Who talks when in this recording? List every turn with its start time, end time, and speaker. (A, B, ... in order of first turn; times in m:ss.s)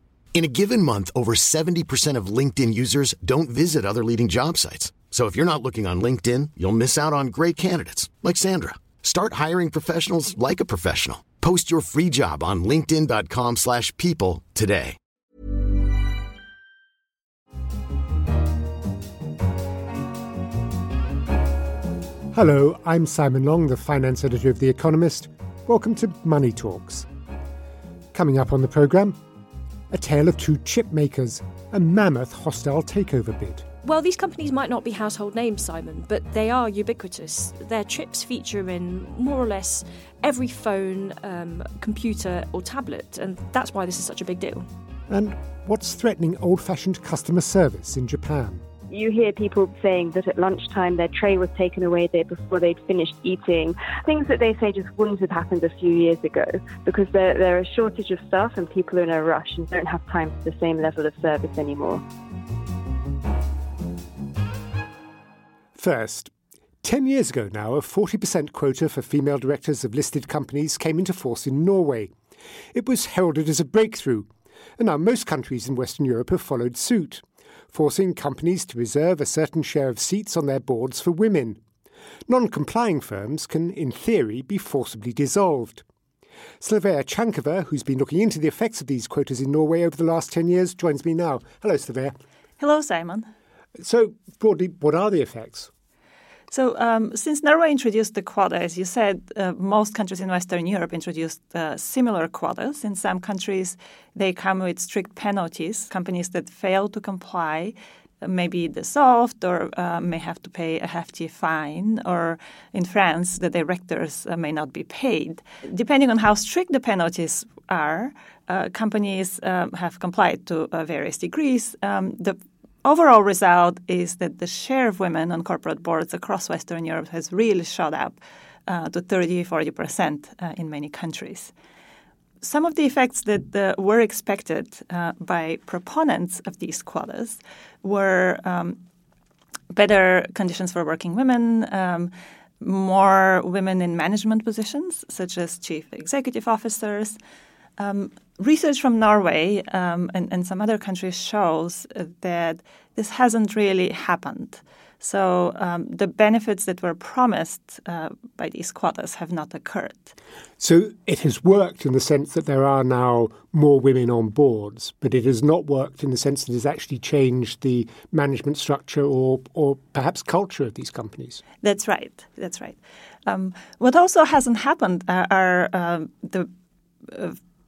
0:00.3-0:15.0 A
0:22.3-0:27.1 B
0:28.1-0:29.2 B
0:29.9-0:33.6 B
0:33.8-0:44.7 C
0:45.1-0:48.6 B
0:48.9-1:02.0 D
1:05.8-1:06.3 B
1:06.8-1:12.1 B
1:12.7-1:21.6 B
1:22.3-1:25.8 B
1:26.6-1:32.2 B
1:32.6-1:33.3 E
1:33.8-1:35.7 B
1:36.5-2:11.5 E
2:12.4-2:18.8 E
2:19.7-2:27.2 E
2:27.8-2:40.1 E
2:40.6-2:51.4 B
2:51.6-2:56.5 E
2:57.1-2:57.4 E